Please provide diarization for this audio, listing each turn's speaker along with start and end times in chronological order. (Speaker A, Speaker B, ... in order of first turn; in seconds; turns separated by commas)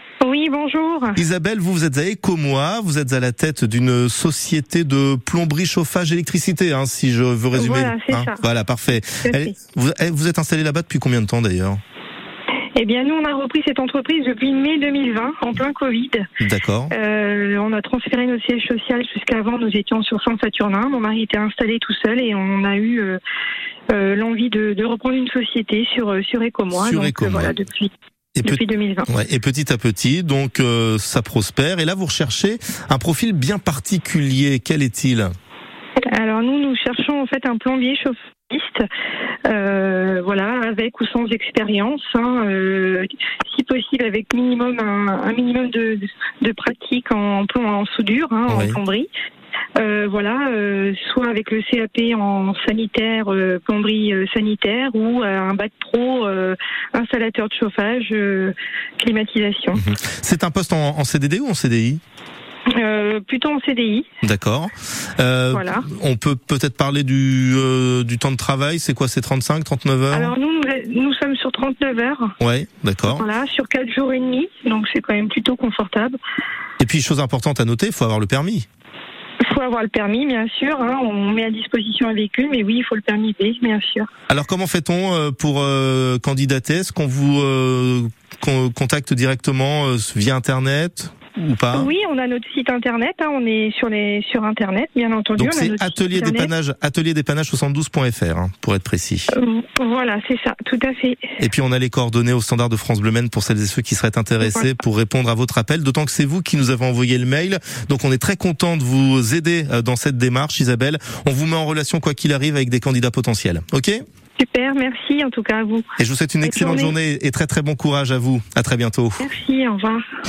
Speaker A: 0.2-1.2, Speaker B: 1.1-11.8, Speaker A: 7.5-8.4, Speaker A: 9.2-9.5, Speaker A: 12.7-16.3, Speaker B: 16.4-16.9, Speaker A: 16.9-23.2, Speaker A: 23.9-27.9, Speaker B: 26.7-27.5, Speaker B: 28.4-35.3, Speaker A: 28.4-29.1, Speaker A: 36.1-38.9, Speaker A: 39.4-49.1, Speaker B: 48.5-48.8, Speaker A: 49.8-59.8, Speaker B: 59.7-62.0, Speaker A: 62.7-64.1, Speaker B: 64.2-70.3, Speaker A: 65.5-65.8, Speaker A: 70.1-72.3, Speaker B: 72.4-73.2, Speaker A: 73.1-76.2, Speaker B: 76.8-78.7, Speaker A: 79.4-84.1, Speaker B: 84.3-91.9, Speaker A: 91.7-96.5, Speaker B: 95.4-99.3, Speaker A: 99.3-101.3, Speaker B: 101.4-114.0, Speaker A: 104.4-104.7, Speaker A: 114.4-115.9, Speaker B: 116.0-119.2, Speaker A: 116.4-116.9, Speaker A: 119.2-120.0